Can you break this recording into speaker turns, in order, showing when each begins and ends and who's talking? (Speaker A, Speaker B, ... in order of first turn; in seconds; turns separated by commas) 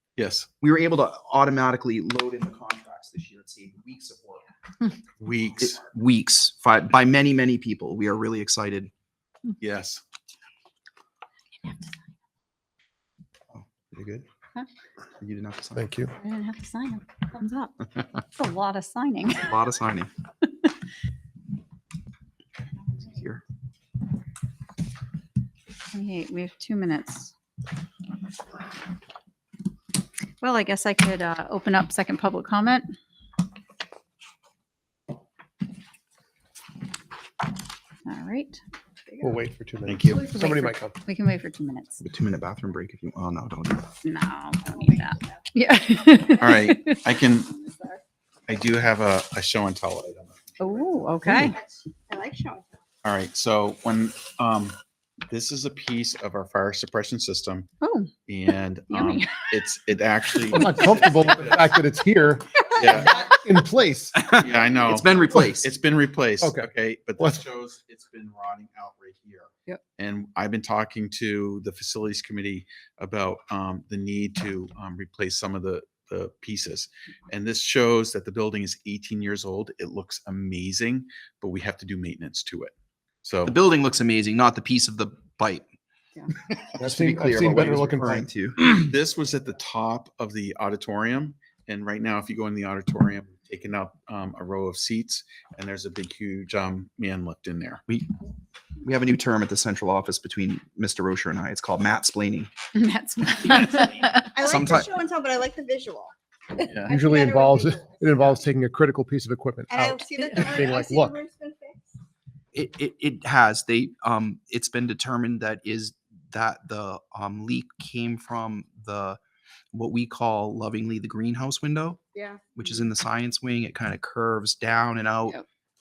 Speaker A: 0.2-0.5, Speaker B: 0.6-4.4, Speaker A: 5.2-5.8, Speaker B: 5.6-8.9, Speaker A: 9.6-10.0, Speaker B: 13.5-14.3, Speaker B: 15.2-15.8, Speaker C: 15.8-16.1, Speaker D: 16.1-17.7, Speaker D: 18.3-19.6, Speaker B: 19.4-20.1, Speaker B: 23.0-23.4, Speaker D: 25.9-27.3, Speaker D: 30.4-32.9, Speaker D: 38.1-38.6, Speaker E: 39.1-39.4, Speaker C: 39.2-41.0, Speaker A: 39.9-40.3, Speaker D: 40.1-42.0, Speaker B: 42.0-43.9, Speaker D: 44.0-47.0, Speaker E: 44.6-45.5, Speaker E: 46.0-46.4, Speaker A: 46.4-47.5, Speaker E: 47.5-48.0, Speaker A: 48.5-51.1, Speaker D: 50.6-51.6, Speaker E: 51.4-52.8, Speaker A: 53.0-54.8, Speaker A: 55.3-57.7, Speaker D: 57.8-58.1, Speaker A: 58.3-61.8, Speaker D: 58.9-59.5, Speaker C: 60.5-64.2, Speaker A: 62.8-63.2, Speaker B: 64.2-65.7, Speaker A: 64.3-83.5, Speaker C: 66.4-67.4, Speaker B: 83.5-85.7, Speaker C: 86.8-88.3, Speaker B: 86.8-88.8, Speaker A: 88.6-97.8, Speaker B: 97.9-98.2, Speaker B: 98.8-102.5, Speaker D: 102.8-104.4, Speaker E: 104.3-108.4, Speaker B: 104.4-104.9, Speaker A: 106.6-107.0, Speaker C: 106.9-111.2, Speaker E: 109.7-111.9, Speaker B: 112.5-119.2, Speaker B: 119.7-122.0, Speaker E: 122.2-122.5, Speaker B: 122.6-125.4